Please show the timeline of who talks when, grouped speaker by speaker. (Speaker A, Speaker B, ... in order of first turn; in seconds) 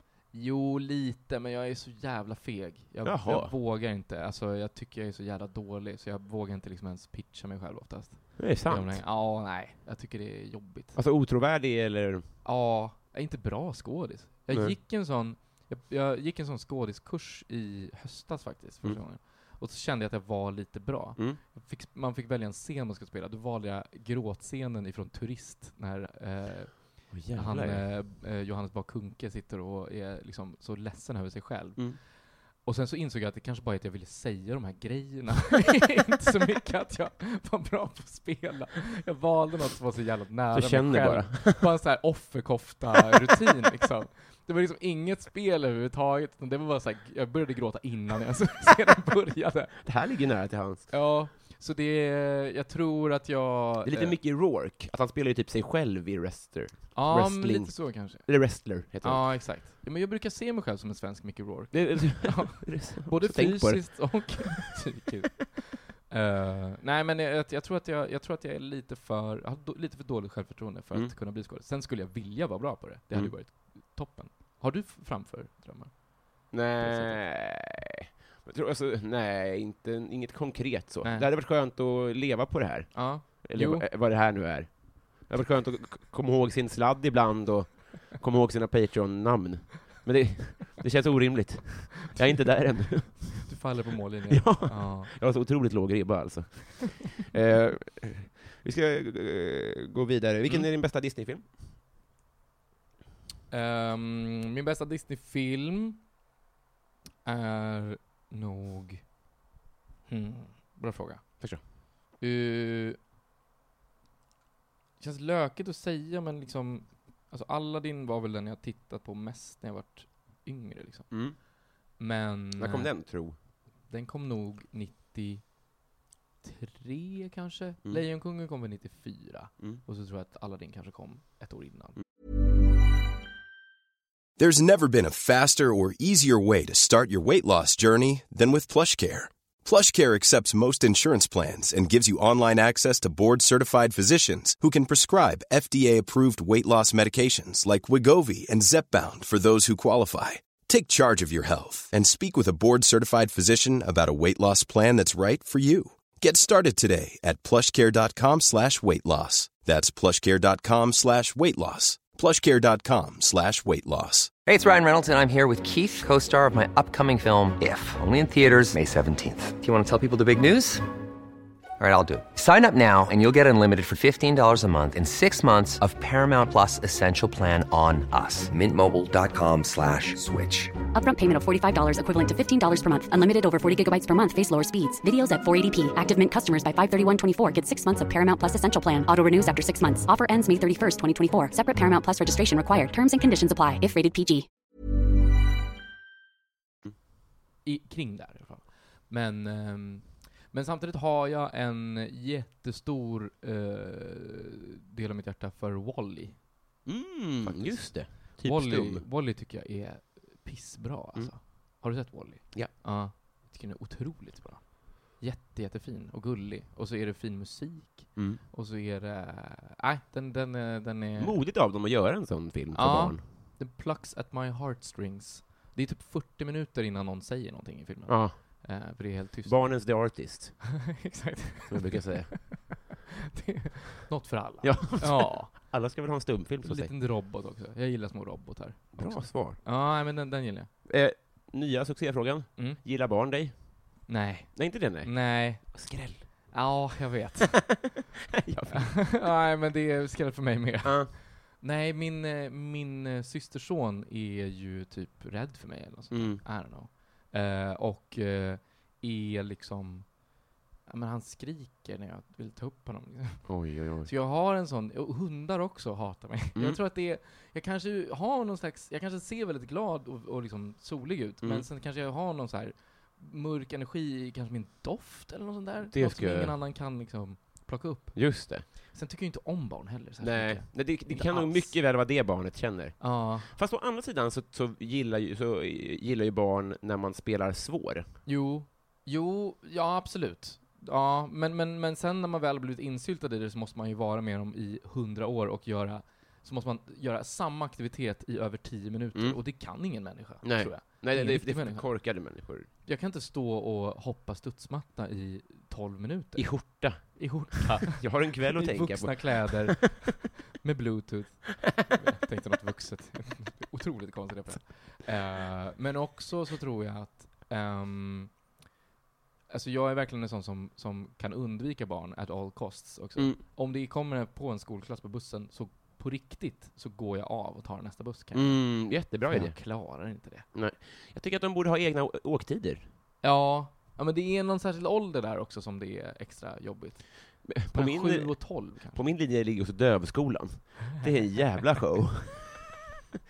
Speaker A: 0.3-11.0, 12.4-49.9, 50.9-54.2, 56.9-77.2, 81.0-81.3, 82.9-83.9, 93.4-95.1, 103.5-106.1, 107.2-109.1, 110.1-111.4, 112.2-113.0, 115.0-121.5, 122.0-123.3, 123.8-125.7, 126.4-132.0, 197.6-206.9, 207.4-221.4, 222.7-230.2, 230.9-232.8, 233.3-235.7, 236.6-240.7, 244.1-248.0, 248.7-260.3, 260.9-281.8, 283.0-283.6, 288.2-318.4, 319.5-330.5, 333.2-339.1
Speaker B: 3.0-3.6, 8.4-9.0, 10.9-12.3, 14.5-14.8, 27.1-27.9, 40.5-41.8, 49.8-50.9, 53.8-59.4, 61.7-64.8, 76.5-93.7, 94.3-101.5, 121.1-121.4, 122.6-123.4, 206.9-209.1, 218.2-218.4, 221.2-223.2, 228.1-228.9, 229.4-230.8, 231.7-232.8, 234.6-236.9, 238.9-239.6, 240.9-246.5, 248.3-249.2, 250.8-251.1, 256.1-256.4, 263.4-264.1, 271.4-271.7, 275.9-276.6, 278.1-278.6, 280.2-288.1, 299.1-302.7, 306.4-309.9, 328.3-329.8, 330.5-332.9, 337.4-342.6
Speaker C: 134.4-164.4
Speaker D: 164.4-170.8, 171.8-180.7
Speaker E: 180.9-194.5